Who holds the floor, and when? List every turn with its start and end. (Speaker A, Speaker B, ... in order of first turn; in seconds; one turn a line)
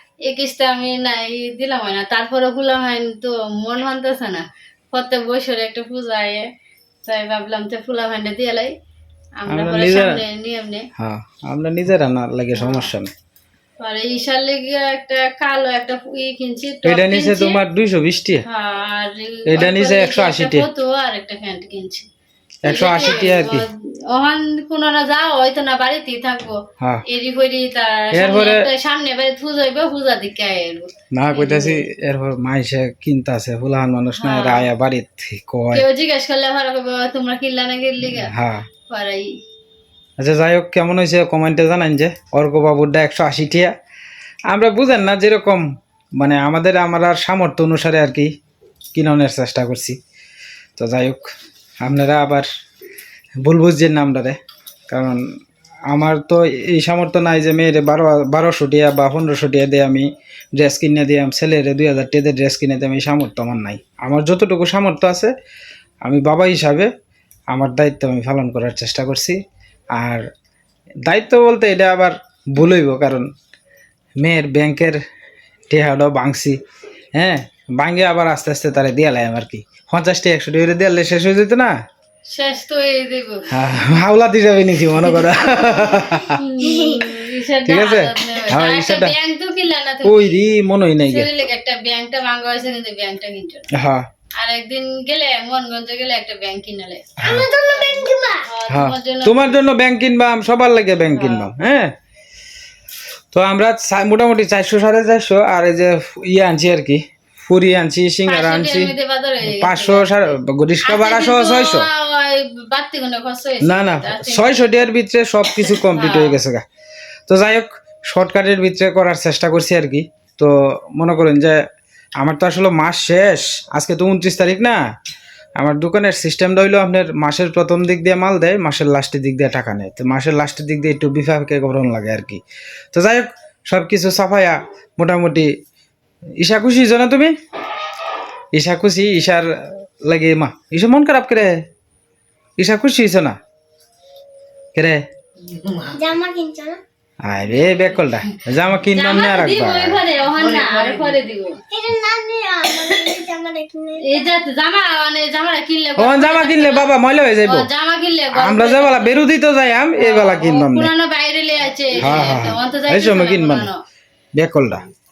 Speaker A: 0.2-6.4
Speaker A: 7.0-8.7
Speaker A: 9.4-10.9
Speaker B: 9.5-10.2
Speaker B: 11.0-13.1
Speaker A: 12.6-12.9
Speaker A: 13.8-17.6
Speaker B: 16.8-18.4
Speaker A: 18.4-22.1
Speaker B: 19.5-20.7
Speaker B: 22.6-23.6
Speaker A: 22.6-31.9
Speaker B: 26.8-27.0
Speaker B: 28.1-28.7
Speaker B: 31.1-35.9
Speaker A: 34.2-34.7
Speaker A: 35.7-38.3
Speaker B: 38.0-38.7
Speaker A: 38.9-39.4
Speaker B: 40.2-43.8
Speaker B: 44.5-48.3
Speaker B: 48.9-50.0
Speaker B: 50.8-51.3
Speaker B: 51.8-52.5
Speaker B: 53.4-54.4
Speaker B: 54.9-55.2
Speaker B: 55.9-65.3
Speaker B: 66.0-66.9
Speaker B: 67.5-69.4
Speaker B: 69.9-70.3
Speaker B: 71.0-73.3
Speaker B: 74.2-75.0
Speaker B: 75.7-76.6
Speaker B: 77.1-81.8
Speaker A: 82.3-83.5
Speaker B: 83.5-86.4
Speaker A: 86.3-90.3
Speaker B: 87.6-89.1
Speaker B: 90.0-91.3
Speaker A: 91.1-93.7
Speaker B: 93.7-94.1
Speaker A: 94.4-97.1
Speaker B: 97.2-97.5
Speaker C: 97.2-98.4
Speaker A: 97.6-99.6
Speaker B: 98.7-101.9
Speaker A: 101.2-101.5
Speaker B: 103.3-111.9
Speaker A: 108.2-114.8
Speaker B: 113.6-116.6
Speaker A: 115.9-116.3
Speaker B: 117.3-121.6
Speaker B: 122.2-124.8
Speaker B: 125.6-132.4
Speaker B: 132.9-135.5
Speaker B: 136.4-137.3
Speaker B: 138.5-141.7
Speaker B: 142.6-143.4
Speaker B: 144.7-145.0
Speaker C: 145.9-146.8
Speaker B: 147.2-150.0
Speaker A: 148.9-151.6
Speaker C: 151.7-154.3
Speaker A: 154.0-156.9
Speaker B: 156.0-157.7
Speaker A: 157.4-159.2
Speaker B: 158.3-160.9
Speaker A: 160.0-163.8
Speaker B: 161.9-163.7
Speaker B: 164.3-164.8